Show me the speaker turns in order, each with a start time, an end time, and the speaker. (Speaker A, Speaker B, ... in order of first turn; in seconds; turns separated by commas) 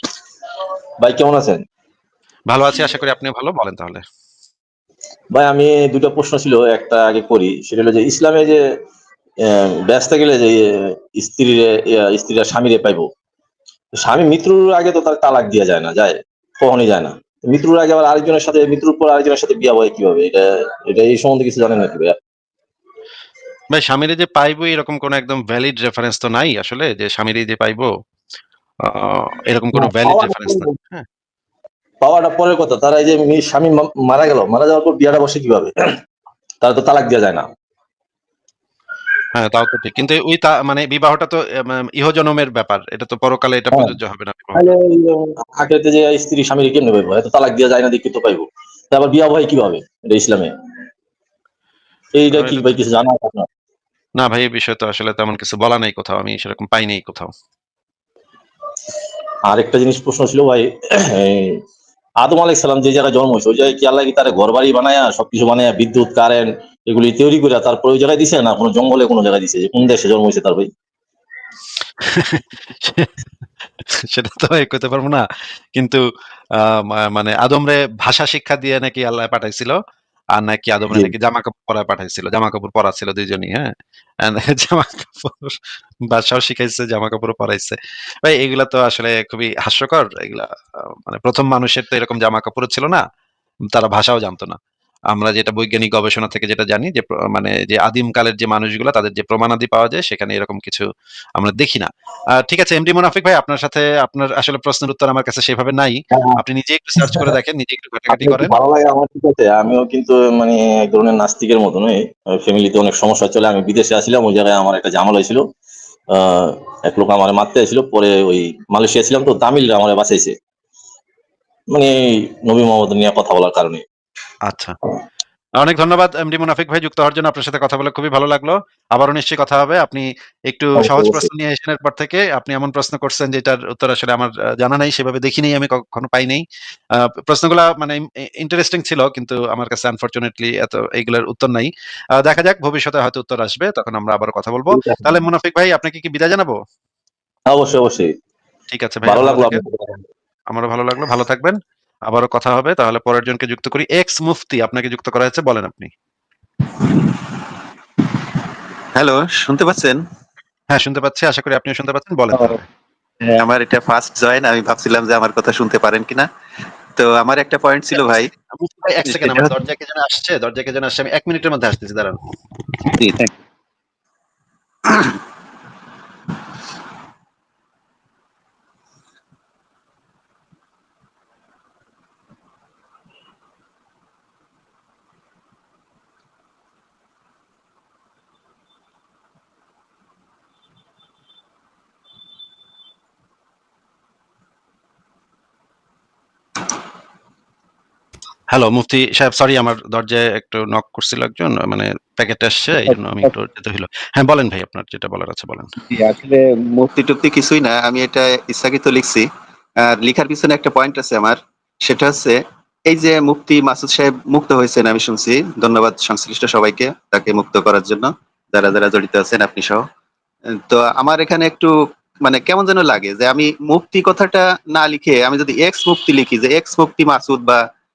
Speaker A: 1.0-1.6, Speaker B: 2.5-4.0, Speaker A: 5.3-8.6, Speaker A: 9.4-13.1, Speaker A: 14.0-22.1, Speaker B: 23.7-27.9, Speaker B: 28.9-31.0, Speaker A: 29.7-30.7, Speaker A: 32.0-35.7, Speaker A: 36.6-37.4, Speaker B: 39.3-44.6, Speaker A: 44.5-50.5, Speaker A: 52.1-53.5, Speaker B: 52.3-52.8, Speaker B: 54.2-57.3, Speaker A: 59.5-61.6, Speaker A: 62.2-70.7, Speaker B: 72.0-73.1, Speaker B: 74.1-75.2, Speaker B: 76.6-79.7, Speaker B: 80.3-83.7, Speaker B: 84.2-85.5, Speaker B: 86.1-90.5, Speaker B: 91.0-93.0, Speaker B: 93.7-94.6, Speaker B: 95.1-100.8, Speaker B: 101.4-108.5, Speaker A: 106.1-106.4, Speaker A: 107.0-107.3, Speaker A: 108.1-115.4, Speaker A: 116.1-120.3, Speaker A: 121.7-123.8, Speaker B: 124.5-124.8, Speaker B: 125.6-136.4, Speaker A: 130.8-131.3, Speaker B: 137.3-146.5, Speaker A: 144.7-145.2, Speaker A: 147.5-148.1, Speaker B: 148.7-149.6, Speaker A: 149.1-150.0, Speaker B: 150.5-151.6, Speaker B: 152.1-155.9, Speaker C: 158.9-160.0, Speaker B: 160.7-162.6, Speaker C: 162.3-162.6, Speaker C: 163.2-166.3, Speaker C: 166.9-168.3, Speaker B: 167.9-172.2, Speaker C: 169.0-169.5, Speaker C: 172.9-173.3, Speaker C: 174.8-175.2, Speaker B: 198.5-205.7, Speaker C: 202.9-203.3, Speaker C: 205.9-209.3, Speaker C: 209.8-219.8, Speaker C: 220.7-227.6